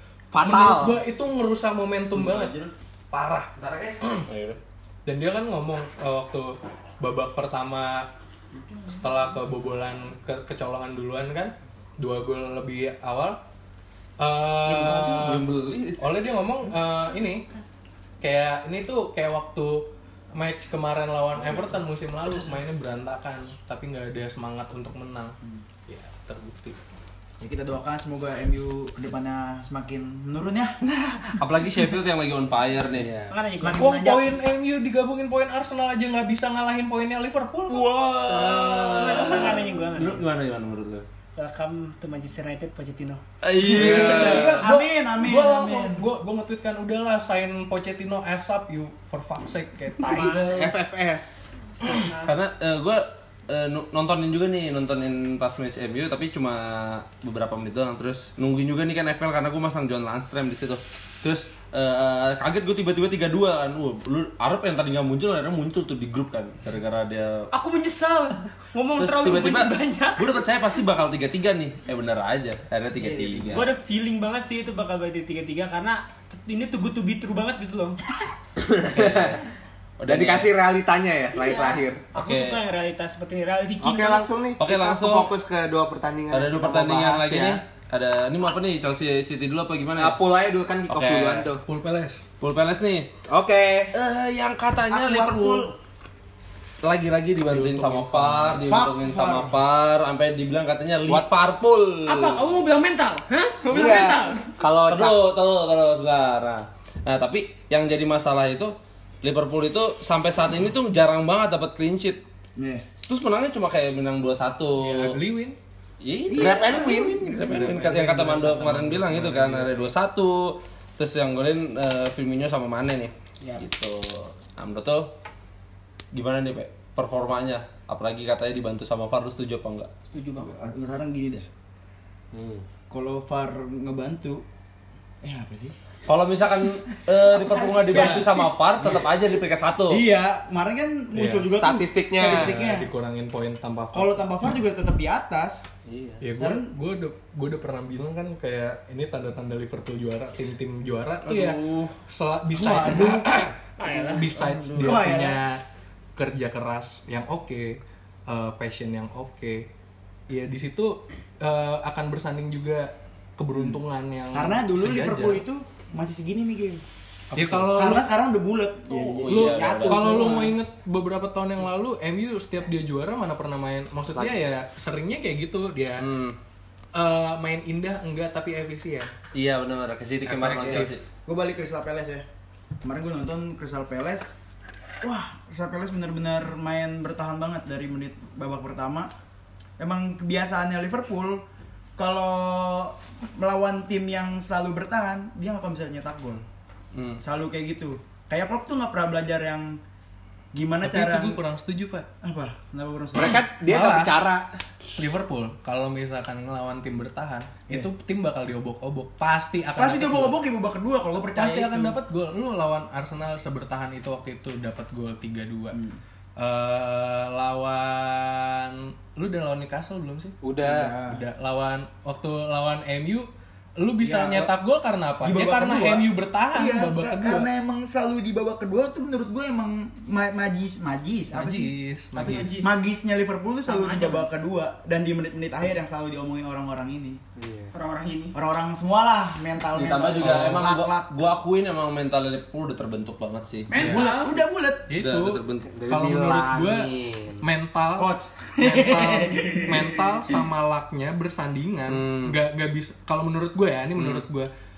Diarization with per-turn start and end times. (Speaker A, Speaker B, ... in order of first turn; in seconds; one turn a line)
Speaker A: 0.3-1.0
Speaker B: 0.4-2.5
Speaker B: 3.1-3.5
Speaker A: 3.6-4.0
Speaker B: 4.0-4.3
Speaker C: 4.3-4.6
Speaker B: 5.0-8.1
Speaker B: 8.9-13.4
Speaker B: 14.2-15.4
Speaker C: 14.6-16.0
Speaker B: 16.0-17.4
Speaker B: 18.2-25.3
Speaker D: 22.2-22.6
Speaker B: 25.9-26.8
Speaker D: 27.4-31.4
Speaker C: 31.4-33.1
Speaker A: 32.9-33.4
Speaker E: 33.3-33.9
Speaker D: 33.6-34.3
Speaker B: 33.7-37.8
Speaker C: 37.7-41.0
Speaker E: 38.3-40.2
Speaker D: 38.3-39.0
Speaker E: 41.4-43.2
Speaker C: 43.4-44.6
Speaker D: 43.6-46.0
Speaker A: 43.6-44.6
Speaker B: 43.7-50.8
Speaker E: 50.0-50.7
Speaker A: 50.5-51.4
Speaker E: 51.8-52.4
Speaker C: 52.2-67.5
Speaker E: 67.5-70.5
Speaker C: 69.0-73.7
Speaker D: 73.0-73.6
Speaker E: 73.5-78.0
Speaker A: 78.6-79.4
Speaker C: 78.9-79.4
Speaker C: 80.0-80.5
Speaker A: 80.1-82.0
Speaker E: 81.3-84.3
Speaker C: 82.2-82.6
Speaker A: 83.8-87.6
Speaker C: 84.6-85.3
Speaker C: 86.3-90.2
Speaker A: 90.0-91.6
Speaker C: 90.9-91.5
Speaker B: 91.6-92.2
Speaker C: 92.4-93.1
Speaker A: 93.3-93.9
Speaker C: 93.9-95.7
Speaker D: 94.9-95.7
Speaker C: 96.8-102.6
Speaker B: 97.5-98.5
Speaker D: 98.4-99.6
Speaker E: 102.0-104.6
Speaker A: 103.7-105.2
Speaker C: 104.8-112.2
Speaker D: 112.6-112.8
Speaker C: 113.0-115.2
Speaker B: 114.8-115.6
Speaker C: 116.0-125.1
Speaker D: 116.3-117.8
Speaker A: 116.4-117.2
Speaker B: 117.5-119.8
Speaker C: 126.1-129.9
Speaker E: 130.1-130.6
Speaker D: 130.4-131.4
Speaker C: 132.3-132.6
Speaker D: 132.9-134.4
Speaker D: 135.2-135.8
Speaker C: 136.1-140.1
Speaker E: 137.4-138.4
Speaker D: 137.8-139.1
Speaker D: 139.9-142.9
Speaker B: 141.1-141.5
Speaker A: 141.6-142.5
Speaker B: 142.2-144.3
Speaker D: 143.9-145.7
Speaker A: 145.8-146.2
Speaker B: 146.2-155.6
Speaker D: 146.4-146.7
Speaker D: 152.5-153.3
Speaker E: 153.8-154.7
Speaker D: 154.7-155.4
Speaker B: 156.2-159.7
Speaker B: 160.3-165.4
Speaker D: 163.5-163.8
Speaker D: 164.3-170.6
Speaker B: 167.3-168.1
Speaker C: 168.9-170.4
Speaker B: 169.3-176.1
Speaker C: 176.0-176.4
Speaker B: 176.9-179.1
Speaker C: 179.3-181.0
Speaker B: 180.2-180.9
Speaker D: 180.6-182.2
Speaker D: 182.8-184.3
Speaker D: 185.0-189.1
Speaker D: 189.8-191.4
Speaker D: 191.9-196.4
Speaker C: 196.9-197.2
Speaker D: 197.2-199.8
Speaker D: 200.5-201.4
Speaker B: 200.8-202.1
Speaker D: 202.2-203.4
Speaker A: 203.1-204.5
Speaker B: 203.5-204.1
Speaker B: 205.0-210.4
Speaker D: 209.7-212.0
Speaker B: 211.3-215.8
Speaker D: 215.7-216.0
Speaker B: 216.4-220.3
Speaker A: 220.4-220.9
Speaker D: 220.6-221.2
Speaker B: 221.0-223.3
Speaker B: 223.8-227.5
Speaker D: 224.0-224.5
Speaker D: 225.2-237.2
Speaker B: 231.3-232.6
Speaker E: 232.2-232.7
Speaker E: 233.7-234.3
Speaker A: 237.4-237.7
Speaker E: 237.7-238.4
Speaker D: 238.3-241.1
Speaker C: 239.7-243.9
Speaker B: 240.2-240.6
Speaker E: 243.7-244.4
Speaker D: 243.8-244.9
Speaker B: 244.9-246.9
Speaker C: 245.0-245.7
Speaker A: 245.7-247.4
Speaker B: 247.4-254.5
Speaker D: 248.0-249.9
Speaker C: 251.9-252.3
Speaker C: 254.0-254.2